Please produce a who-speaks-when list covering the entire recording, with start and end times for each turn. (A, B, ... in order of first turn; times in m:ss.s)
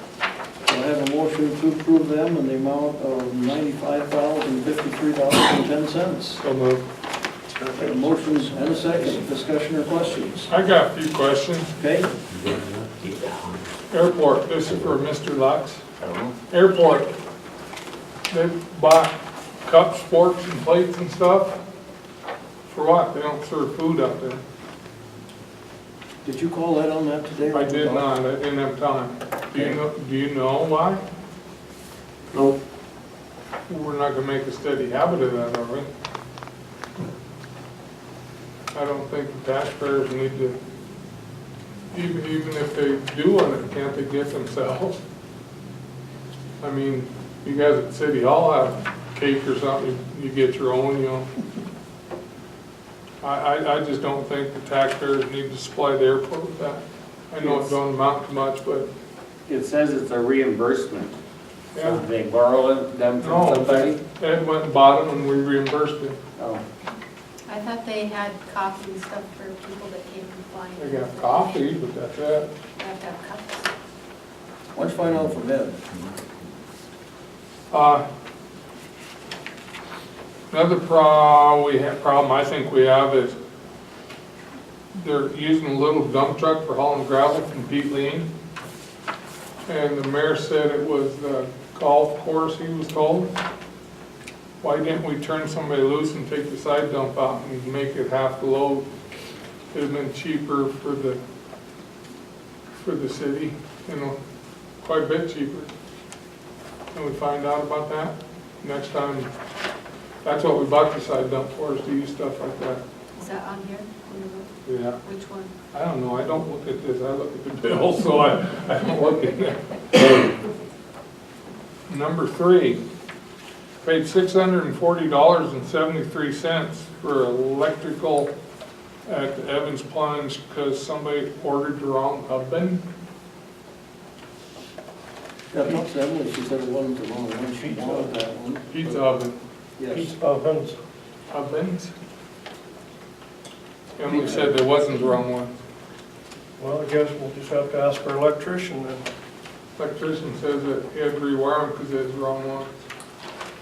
0:00.7-0:06.4 A
0:06.4-0:06.8 B
0:07.6-0:08.1 C
0:07.8-0:10.5 A
0:10.5-0:11.7 B
0:11.8-0:12.1 A
0:13.9-0:15.8 B
0:16.0-0:16.3 D
0:16.5-0:17.1 B
0:18.3-0:19.1 B
0:19.6-0:21.6 B
0:22.7-0:24.4 B
0:26.2-0:28.1 A
0:27.5-0:31.0 B
0:33.7-0:35.9 B
0:38.7-0:40.6 B
0:41.9-0:45.0 B
0:46.6-0:51.3 B
0:53.2-0:58.9 B
0:59.5-1:01.2 D
1:01.8-1:02.0 B
1:01.8-1:04.0 D
1:03.2-1:06.2 B
1:06.4-1:06.6 D
1:07.5-1:11.6 E
1:10.8-1:12.5 B
1:12.8-1:13.7 E
1:14.8-1:15.8 A
1:17.7-1:18.0 B
1:20.5-1:23.4 B
1:24.9-1:28.3 B
1:29.6-1:33.3 B
1:34.6-1:38.9 B
1:39.7-1:41.2 B
1:42.8-1:44.2 B
1:44.8-1:45.7 B
1:46.9-1:49.3 B
1:50.2-1:52.8 B
1:53.2-1:54.5 E
1:54.6-1:55.0 B
1:55.0-1:55.5 E
1:55.7-2:00.3 B
2:01.9-2:02.8 B
2:03.8-2:08.3 B
2:09.1-2:12.8 B
2:15.5-2:19.0 A
2:17.6-2:18.1 C
2:18.7-2:19.4 B
2:19.8-2:20.1 A
2:19.9-2:20.8 C
2:21.3-2:21.9 B
2:24.0-2:25.6 B
2:26.6-2:29.0 C
2:29.8-2:32.7 B